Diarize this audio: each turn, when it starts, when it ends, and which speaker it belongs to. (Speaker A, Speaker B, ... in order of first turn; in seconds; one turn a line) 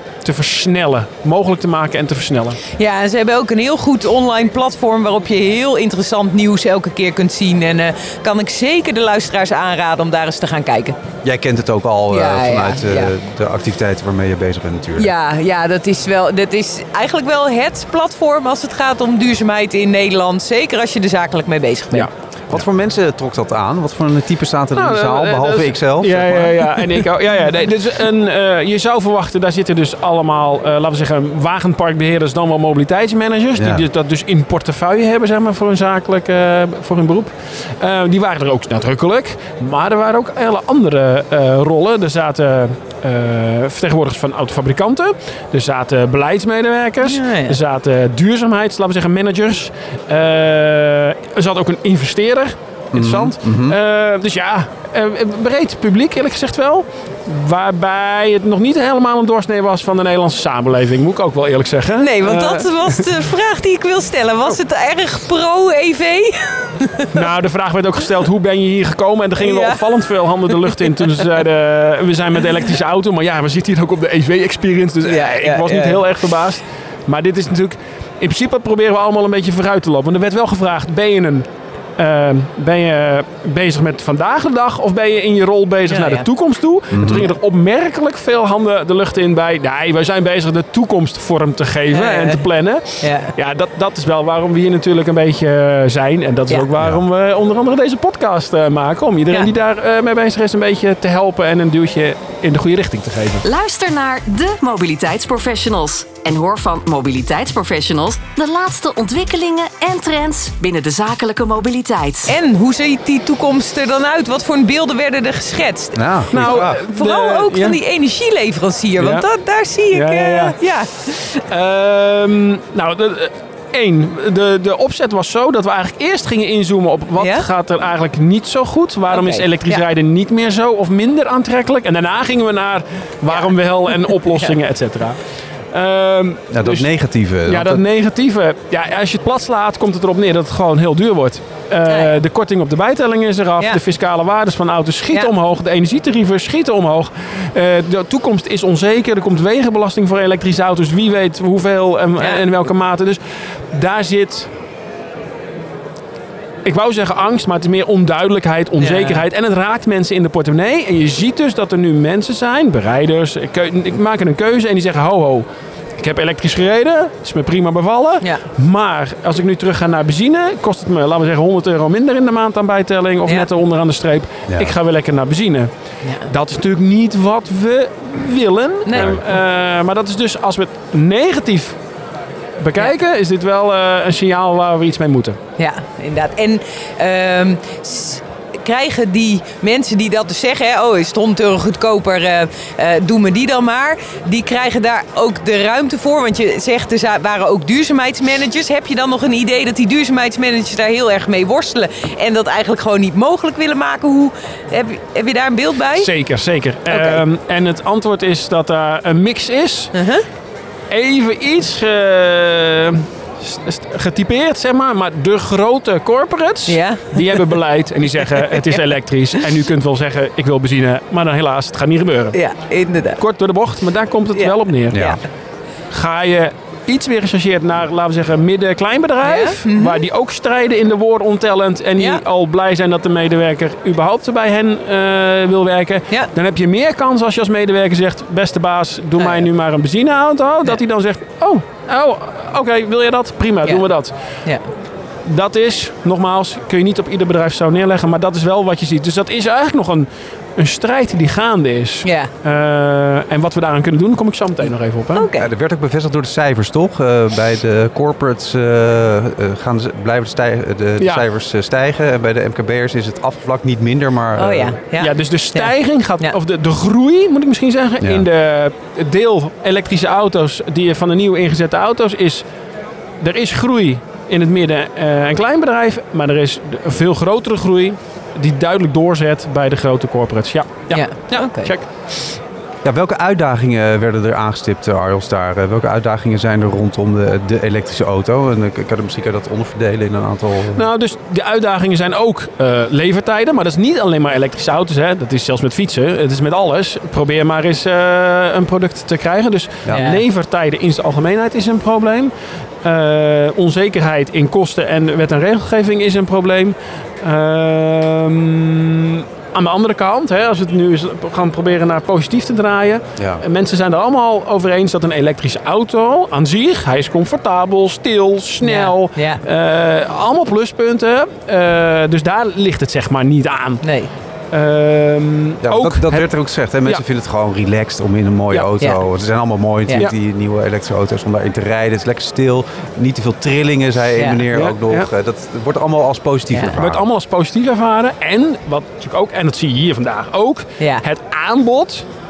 Speaker A: 0.2-2.6
Speaker B: 2.8-11.0
Speaker C: 11.2-15.1
Speaker B: 12.1-13.1
Speaker B: 15.0-22.1
Speaker A: 21.9-22.6
Speaker C: 22.5-26.7
Speaker A: 24.8-63.0
Speaker C: 33.6-33.8
Speaker B: 47.0-47.6
Speaker C: 52.9-53.8
Speaker B: 62.0-67.1
Speaker A: 67.1-103.4
Speaker B: 69.4-69.9
Speaker B: 75.0-76.0
Speaker B: 85.9-86.3
Speaker C: 86.9-87.3
Speaker B: 91.9-92.4
Speaker B: 93.0-93.3
Speaker D: 103.4-112.3
Speaker B: 112.3-121.4
Speaker C: 116.0-116.8
Speaker A: 116.3-117.8
Speaker A: 119.0-119.3
Speaker A: 119.9-120.6
Speaker A: 121.5-135.2
Speaker B: 127.2-127.5
Speaker B: 129.1-129.8
Speaker B: 133.3-133.6
Speaker B: 134.1-134.4
Speaker A: 135.7-136.9
Speaker C: 136.5-137.8
Speaker A: 137.4-153.2
Speaker B: 141.9-142.1
Speaker B: 152.2-152.4
Speaker A: 153.7-154.5
Speaker A: 156.7-165.5
Speaker B: 158.8-159.2
Speaker A: 166.0-175.7
Speaker C: 174.5-174.8
Speaker B: 176.0-176.3
Speaker A: 176.3-181.8
Speaker B: 178.9-179.2
Speaker C: 178.9-179.2
Speaker A: 182.6-185.4
Speaker B: 185.6-206.1
Speaker A: 206.0-209.9
Speaker B: 206.9-207.2
Speaker B: 209.9-210.2
Speaker A: 210.9-222.4
Speaker B: 216.7-217.5
Speaker B: 218.3-218.8
Speaker B: 222.3-223.2
Speaker A: 223.2-225.0
Speaker B: 224.3-225.2
Speaker C: 224.9-225.2
Speaker A: 225.9-244.1
Speaker B: 229.2-230.0
Speaker B: 232.0-232.2
Speaker B: 239.2-239.5
Speaker A: 245.2-255.3
Speaker B: 252.0-252.3
Speaker B: 255.2-255.5
Speaker C: 255.4-264.8
Speaker B: 264.4-266.4
Speaker A: 265.0-272.4
Speaker C: 268.0-268.3
Speaker A: 273.2-281.9
Speaker B: 280.9-281.7
Speaker C: 282.8-290.9
Speaker A: 290.7-302.3
Speaker B: 299.9-300.2
Speaker A: 302.8-323.8
Speaker C: 313.2-313.4
Speaker B: 318.6-319.4
Speaker B: 323.8-324.1
Speaker A: 324.5-326.3
Speaker C: 325.6-337.1
Speaker B: 334.2-334.4
Speaker A: 334.5-335.1
Speaker A: 336.8-342.1
Speaker B: 340.8-341.0